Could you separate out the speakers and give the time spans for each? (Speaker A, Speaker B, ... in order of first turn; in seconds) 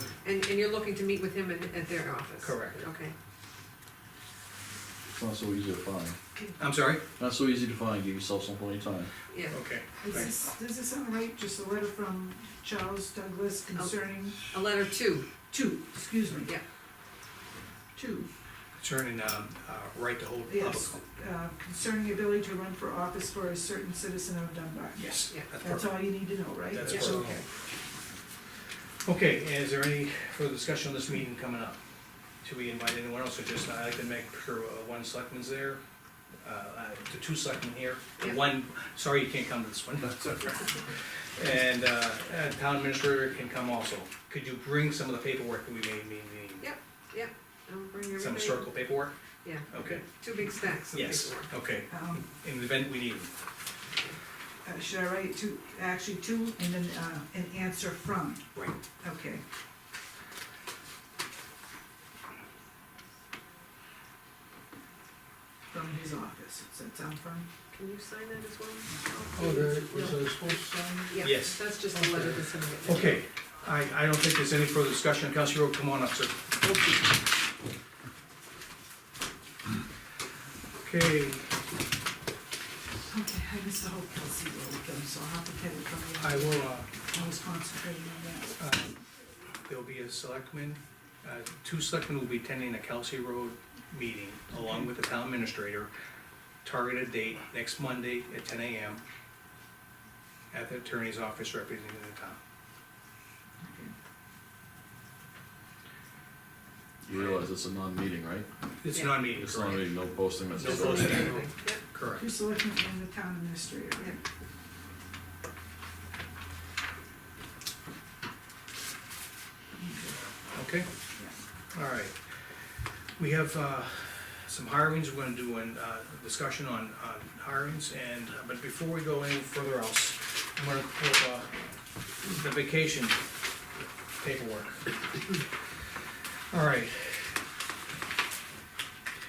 Speaker A: 0.2-3.1, 9.3-9.6, 13.8-15.3, 38.2-38.4, 46.6-48.8, 49.4-51.5, 67.7-70.5, 71.1-73.2, 108.9-109.2, 110.6-111.8
Speaker B: 2.4-2.8, 6.6-7.0, 9.5-10.3, 18.8-21.0, 25.0-27.4, 29.1-31.8, 32.4-35.8, 36.4-46.7, 48.2-49.1, 49.7-50.1, 50.9-53.3, 71.2-71.6, 72.9-76.5, 80.8-81.5, 86.2-86.9, 88.6-89.0, 89.7-95.9, 96.6-99.0, 100.5-102.4, 108.8-109.9, 110.5-111.4, 111.9-112.3, 120.5-120.9, 121.7-122.2, 123.2-131.5, 132.2-133.2, 134.2-135.3, 136.5-137.4
Speaker C: 5.1-6.2, 7.2-9.1, 107.0-108.5, 109.4-110.6
Speaker D: 10.0-14.5, 15.5-16.5, 17.9-18.3, 20.5-27.4, 51.9-52.3, 54.6-58.5, 59.0-59.4, 65.7-67.5, 83.1-88.6, 103.6-103.9, 110.7-111.2, 112.1-114.2, 119.8-120.2
Speaker E: 69.4-71.1, 111.1-111.4